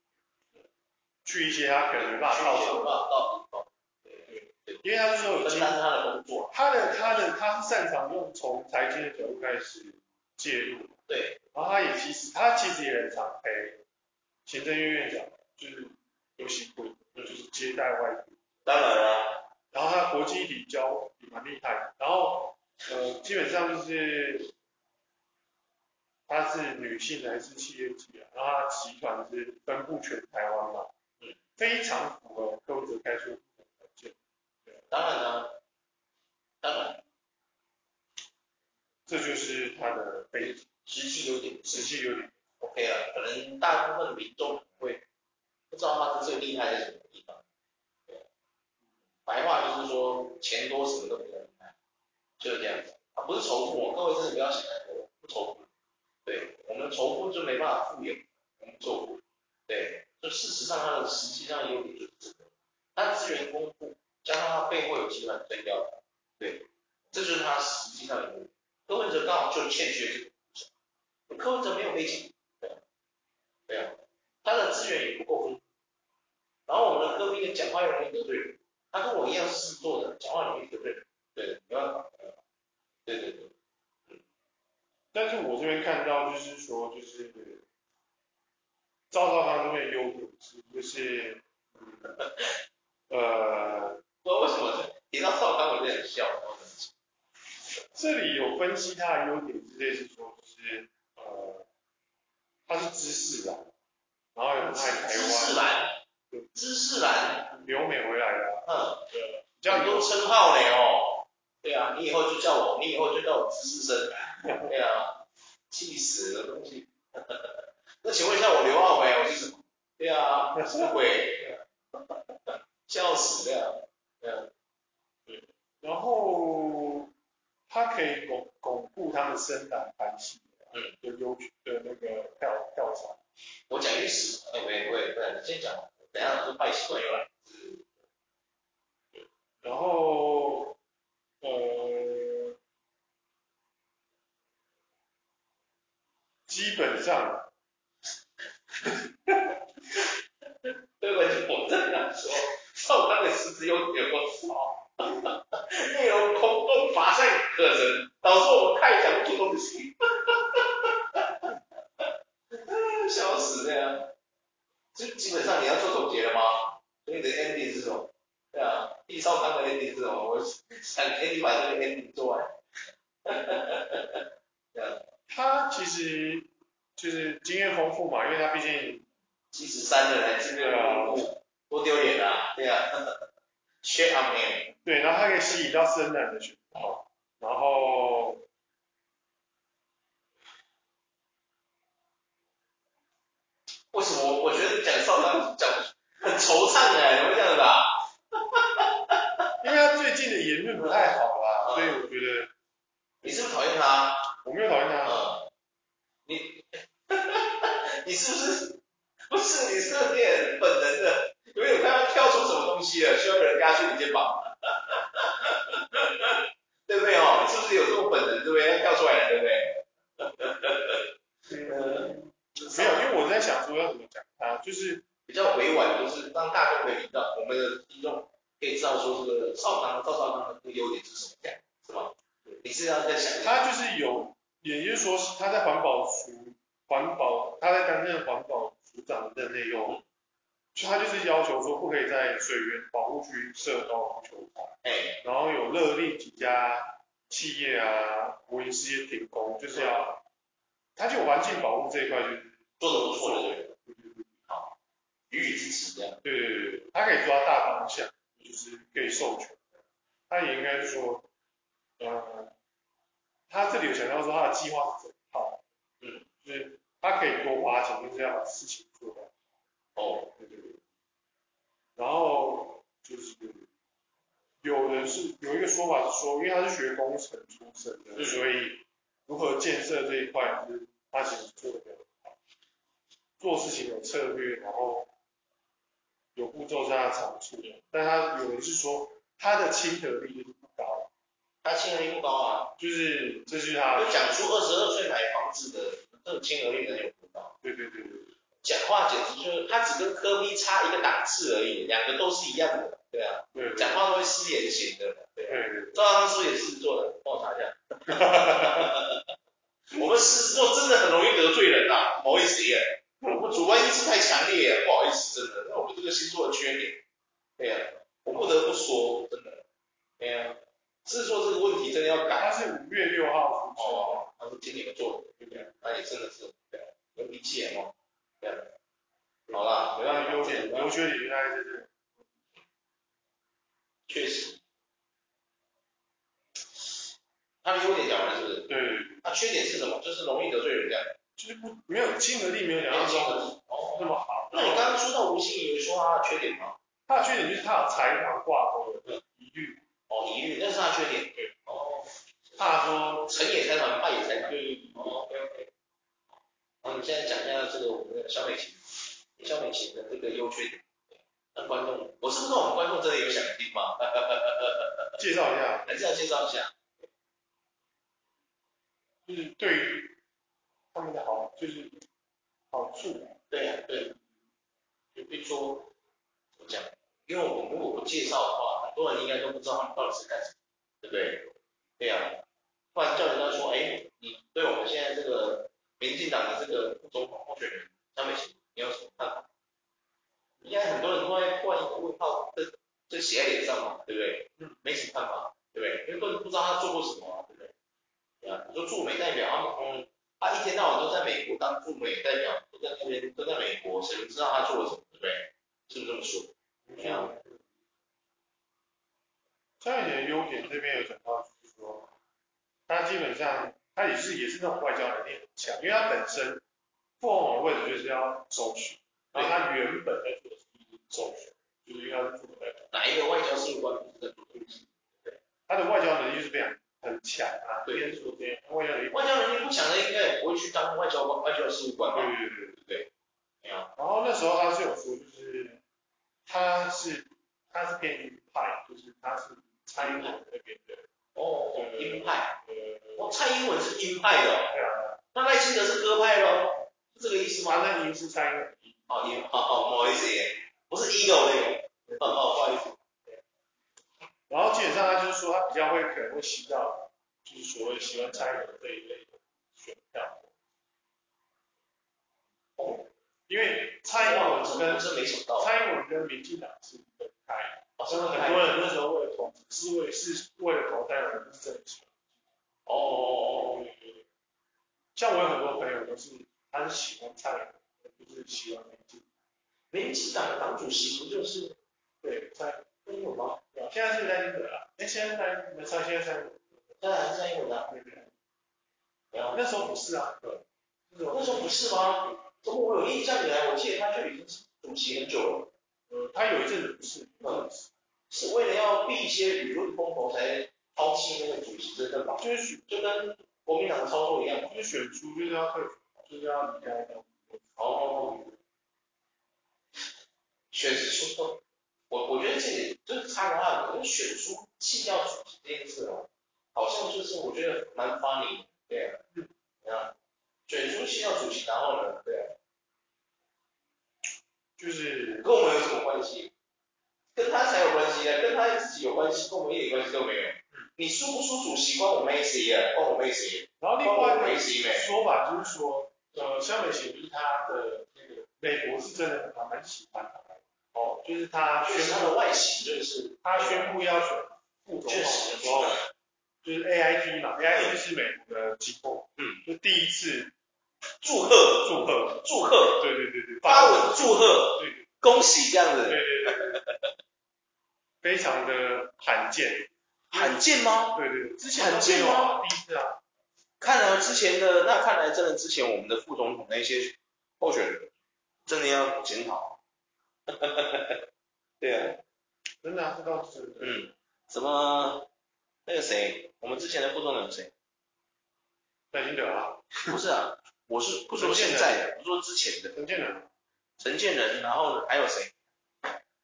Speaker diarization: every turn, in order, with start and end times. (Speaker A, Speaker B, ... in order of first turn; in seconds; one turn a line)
Speaker A: 1.2-3.0
Speaker B: 1.9-7.3
Speaker A: 4.3-5.8
Speaker A: 6.5-10.9
Speaker B: 11.1-11.4
Speaker A: 11.5-13.8
Speaker A: 14.4-18.4
Speaker B: 18.6-19.4
Speaker A: 19.7-24.5
Speaker A: 26.3-30.9
Speaker A: 31.6-34.1
Speaker B: 34.9-35.5
Speaker B: 36.6-37.0
Speaker A: 39.0-40.7
Speaker B: 40.4-41.9
Speaker A: 41.6-42.4
Speaker B: 42.6-45.0
Speaker B: 45.7-47.4
Speaker B: 49.2-51.7
Speaker B: 52.4-55.7
Speaker B: 56.2-70.7
Speaker B: 71.3-72.8
Speaker B: 73.7-75.6
Speaker B: 76.7-82.4
Speaker B: 83.0-83.5
Speaker A: 85.1-87.6
Speaker A: 89.1-92.2
Speaker A: 93.1-94.0
Speaker B: 94.2-96.9
Speaker A: 97.9-101.6
Speaker A: 102.7-103.7
Speaker A: 104.3-105.6
Speaker B: 104.7-106.0
Speaker B: 106.5-107.5
Speaker A: 107.5-110.1
Speaker B: 108.7-109.0
Speaker B: 109.7-124.5
Speaker A: 114.3-114.7
Speaker A: 120.5-120.9
Speaker A: 125.2-127.1
Speaker A: 127.7-133.2
Speaker B: 133.7-137.8
Speaker A: 139.1-140.8
Speaker A: 141.4-142.5
Speaker A: 146.5-147.5
Speaker B: 148.8-150.1
Speaker B: 150.6-164.1
Speaker B: 164.9-172.5
Speaker B: 173.2-175.0
Speaker A: 175.3-179.1
Speaker B: 179.5-183.2
Speaker A: 180.6-181.3
Speaker B: 183.8-184.7
Speaker A: 184.8-188.4
Speaker B: 193.9-199.4
Speaker A: 199.6-202.5
Speaker B: 200.8-201.9
Speaker B: 203.2-204.2
Speaker A: 204.4-205.2
Speaker B: 205.0-205.5
Speaker B: 206.2-221.1
Speaker A: 221.5-225.1
Speaker B: 221.6-223.1
Speaker B: 225.3-233.6
Speaker A: 233.4-240.0
Speaker A: 240.7-250.2
Speaker B: 244.8-245.2
Speaker A: 250.9-254.3
Speaker B: 252.8-253.7
Speaker B: 254.5-254.7
Speaker B: 255.3-256.2
Speaker A: 256.2-259.8
Speaker A: 260.3-261.2
Speaker A: 262.0-262.5
Speaker A: 263.5-265.6
Speaker B: 266.0-266.2
Speaker A: 266.4-269.3
Speaker B: 269.9-270.3
Speaker A: 270.4-270.8
Speaker A: 272.0-273.7
Speaker A: 274.6-282.4
Speaker A: 283.4-285.1
Speaker A: 286.3-291.1
Speaker B: 291.6-292.7
Speaker A: 292.8-294.6
Speaker B: 293.9-297.5
Speaker A: 297.6-298.3
Speaker B: 298.6-309.3
Speaker A: 303.5-304.0
Speaker A: 305.5-306.0
Speaker A: 308.1-308.9
Speaker B: 309.9-317.0
Speaker B: 317.6-319.6
Speaker B: 320.2-322.5
Speaker A: 322.4-324.2
Speaker B: 323.8-328.7
Speaker B: 329.5-330.9
Speaker A: 329.5-331.9
Speaker B: 334.1-334.6
Speaker B: 337.6-338.7
Speaker A: 338.7-339.2
Speaker B: 339.2-341.2
Speaker A: 341.4-345.0
Speaker B: 342.9-346.8
Speaker A: 347.1-349.8
Speaker B: 350.1-352.6
Speaker A: 352.6-353.3
Speaker B: 353.3-355.7
Speaker A: 354.5-355.1
Speaker B: 356.8-365.1
Speaker A: 365.2-365.9
Speaker B: 365.9-366.8
Speaker A: 369.2-370.1
Speaker A: 370.9-372.0
Speaker A: 372.7-373.4
Speaker B: 373.5-374.1
Speaker B: 375.1-375.9
Speaker B: 376.6-381.5
Speaker B: 382.0-382.4
Speaker B: 382.9-389.5
Speaker B: 390.6-397.7
Speaker B: 398.4-407.3
Speaker A: 406.9-407.6
Speaker A: 409.8-412.1
Speaker A: 412.9-416.6
Speaker A: 417.2-422.9
Speaker B: 422.9-425.4
Speaker A: 425.7-429.4
Speaker B: 429.1-433.1
Speaker A: 432.1-432.8
Speaker B: 433.6-433.9
Speaker A: 433.9-435.8
Speaker A: 436.4-441.1
Speaker B: 441.3-442.6
Speaker A: 441.7-443.2
Speaker B: 443.2-444.7
Speaker A: 444.7-445.2
Speaker B: 445.3-447.8
Speaker A: 447.6-449.0
Speaker B: 449.1-453.2
Speaker A: 452.1-452.4
Speaker A: 454.5-460.5
Speaker B: 462.8-463.0
Speaker A: 463.5-472.2
Speaker B: 464.1-465.7
Speaker B: 468.0-469.0
Speaker B: 472.9-473.8
Speaker A: 473.6-474.2
Speaker A: 475.1-479.2
Speaker B: 479.9-481.8
Speaker A: 482.2-486.6
Speaker B: 483.1-483.5
Speaker B: 487.0-487.9
Speaker A: 487.9-488.3
Speaker B: 489.3-489.6
Speaker A: 489.5-490.5
Speaker A: 491.1-492.4
Speaker B: 491.3-495.7
Speaker A: 496.1-497.9
Speaker B: 498.3-504.7
Speaker A: 502.4-502.9
Speaker A: 504.6-508.4
Speaker B: 507.8-508.5
Speaker B: 510.7-519.2
Speaker B: 519.8-520.1
Speaker B: 520.7-522.5
Speaker A: 524.8-525.5
Speaker B: 525.4-526.5
Speaker B: 527.3-535.1
Speaker A: 533.8-542.4
Speaker B: 541.8-544.0
Speaker A: 543.4-546.0
Speaker B: 545.0-546.1
Speaker A: 546.6-550.5
Speaker B: 549.4-549.6
Speaker B: 551.2-553.0
Speaker A: 551.8-552.4
Speaker A: 553.0-555.1
Speaker B: 553.6-557.0
Speaker A: 556.0-556.8
Speaker A: 558.2-563.2
Speaker B: 560.3-561.2
Speaker B: 561.7-562.6
Speaker B: 563.8-568.1
Speaker B: 568.6-569.8
Speaker B: 570.5-571.2
Speaker B: 571.8-572.2
Speaker A: 572.8-574.1
Speaker B: 573.8-575.3
Speaker B: 575.9-577.7
Speaker A: 579.1-580.1
Speaker B: 580.1-582.9
Speaker A: 581.4-582.1
Speaker A: 582.9-583.5
Speaker B: 584.0-585.5